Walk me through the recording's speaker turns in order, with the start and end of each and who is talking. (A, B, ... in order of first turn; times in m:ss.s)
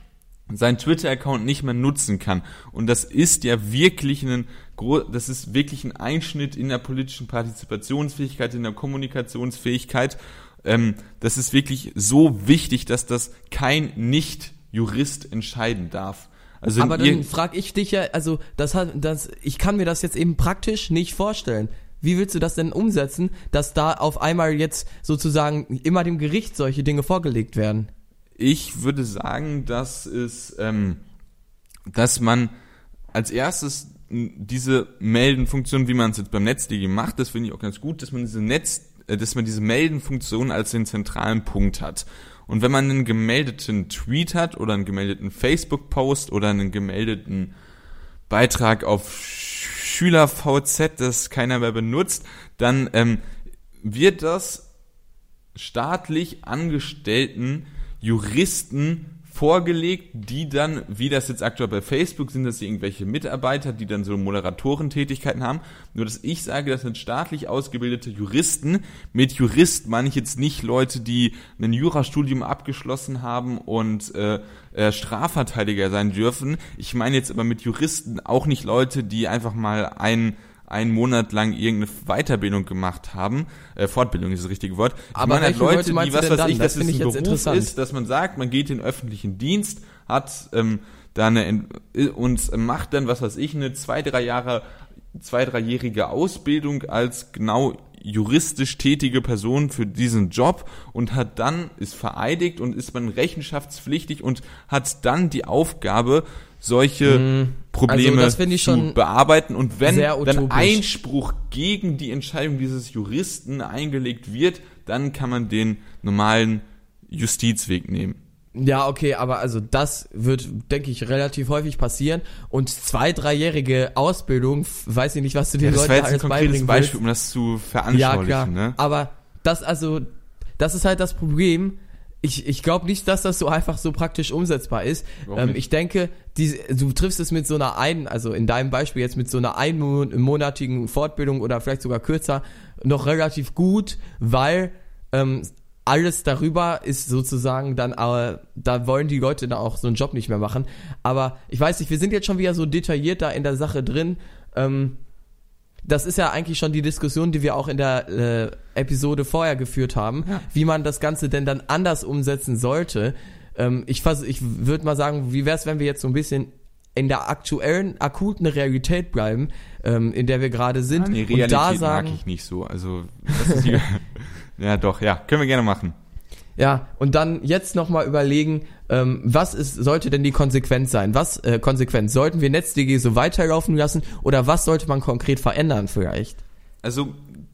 0:00.5-0:17.3 A
0:16.8-0:27.9 B
0:28.4-0:31.0 A
0:31.9-0:32.5 A
0:33.1-0:47.5 A
0:48.3-0:53.2 A
0:53.8-0:54.6 A
0:55.5-1:34.6 A
1:25.1-1:27.7 B
1:35.1-1:58.2 A
1:47.0-1:49.0 B
1:49.8-1:50.8 B
1:58.5-2:07.0 B
2:05.6-2:08.8 A
2:07.9-2:10.1 B
2:10.6-2:35.0 B
2:15.2-2:15.6 A
2:35.8-2:52.2 B
2:50.9-2:55.9 A
2:53.4-2:53.6 B
2:56.6-3:06.4 B
3:06.8-3:07.4 A